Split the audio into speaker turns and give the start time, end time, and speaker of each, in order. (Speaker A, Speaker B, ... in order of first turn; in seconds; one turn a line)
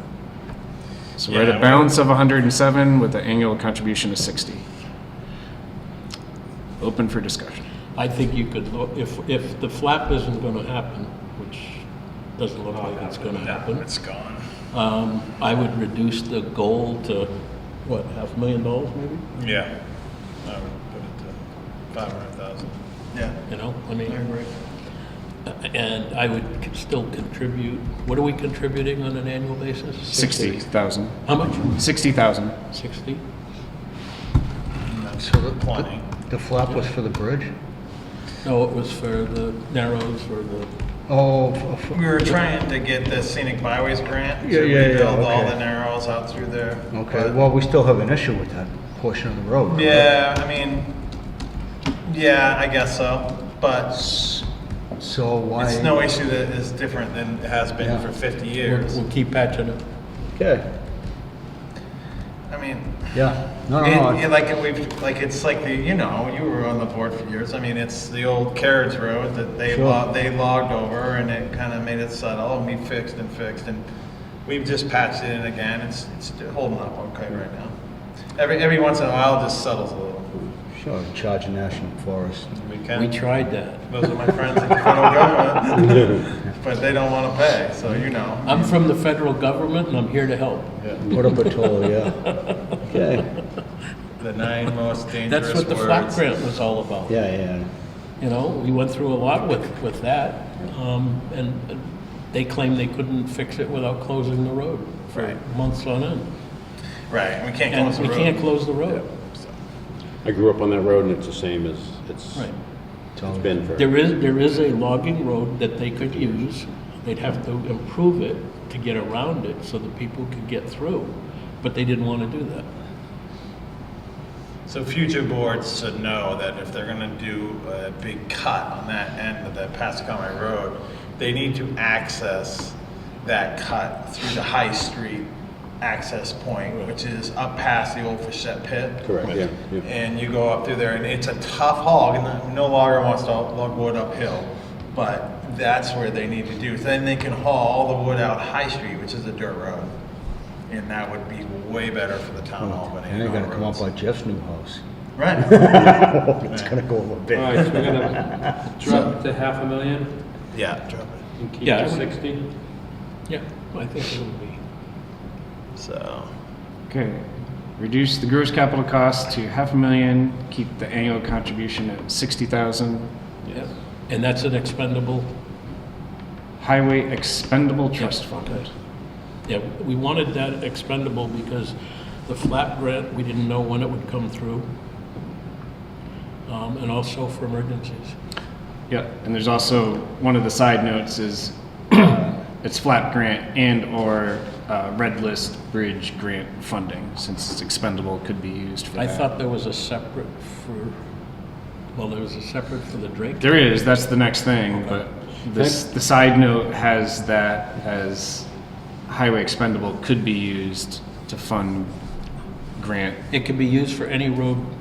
Speaker A: 1.2-4.6
Speaker B: 1.3-1.9
Speaker A: 6.8-7.6
Speaker C: 8.0-11.8
Speaker C: 12.4-13.8
Speaker B: 13.1-14.4
Speaker C: 14.7-17.3
Speaker C: 17.8-19.2
Speaker B: 19.4-19.7
Speaker B: 20.4-21.4
Speaker B: 21.9-23.4
Speaker C: 23.5-24.2
Speaker B: 24.0-24.5
Speaker C: 25.4-30.7
Speaker A: 30.1-32.6
Speaker C: 31.2-31.8
Speaker C: 32.7-33.2
Speaker B: 34.9-36.0
Speaker D: 35.2-37.5
Speaker C: 38.4-40.7
Speaker D: 41.1-42.0
Speaker B: 41.9-47.4
Speaker D: 44.4-45.6
Speaker D: 46.9-50.1
Speaker B: 49.7-50.9
Speaker B: 52.0-54.0
Speaker D: 53.9-54.4
Speaker D: 55.0-56.0
Speaker B: 55.6-59.0
Speaker D: 57.8-58.1
Speaker C: 58.6-59.8
Speaker D: 60.4-60.6
Speaker B: 62.5-63.2
Speaker D: 63.1-64.2
Speaker B: 63.8-73.8
Speaker D: 69.7-70.0
Speaker B: 74.4-77.7
Speaker B: 78.3-80.3
Speaker D: 80.7-82.5
Speaker B: 82.5-83.1
Speaker C: 82.9-83.8
Speaker B: 83.9-88.8
Speaker C: 88.4-91.5
Speaker D: 91.0-92.2
Speaker C: 92.3-92.5
Speaker D: 92.9-93.3
Speaker B: 94.2-96.2
Speaker C: 95.2-97.1
Speaker D: 97.1-97.7
Speaker C: 98.2-106.2
Speaker B: 107.1-108.4
Speaker C: 107.7-109.1
Speaker E: 110.2-112.5
Speaker D: 113.2-113.5
Speaker E: 113.3-113.9
Speaker C: 113.7-122.7
Speaker B: 124.7-135.3
Speaker B: 135.8-139.1
Speaker E: 139.0-139.9
Speaker B: 139.8-149.9
Speaker B: 150.7-153.8
Speaker D: 152.6-154.8
Speaker B: 155.2-156.7
Speaker D: 155.4-159.0
Speaker F: 157.3-160.1
Speaker B: 160.5-161.2
Speaker F: 161.4-162.4
Speaker C: 161.6-162.2
Speaker C: 163.3-164.6
Speaker B: 165.8-166.3
Speaker A: 166.9-167.2
Speaker A: 167.8-173.1
Speaker C: 173.5-175.3
Speaker A: 176.6-178.7
Speaker C: 178.0-178.6
Speaker C: 179.4-184.7
Speaker C: 186.4-188.1
Speaker A: 188.9-199.3
Speaker C: 198.9-200.9
Speaker C: 201.9-203.4
Speaker A: 203.4-208.5
Speaker A: 209.1-211.9
Speaker A: 212.8-213.2
Speaker C: 213.3-214.7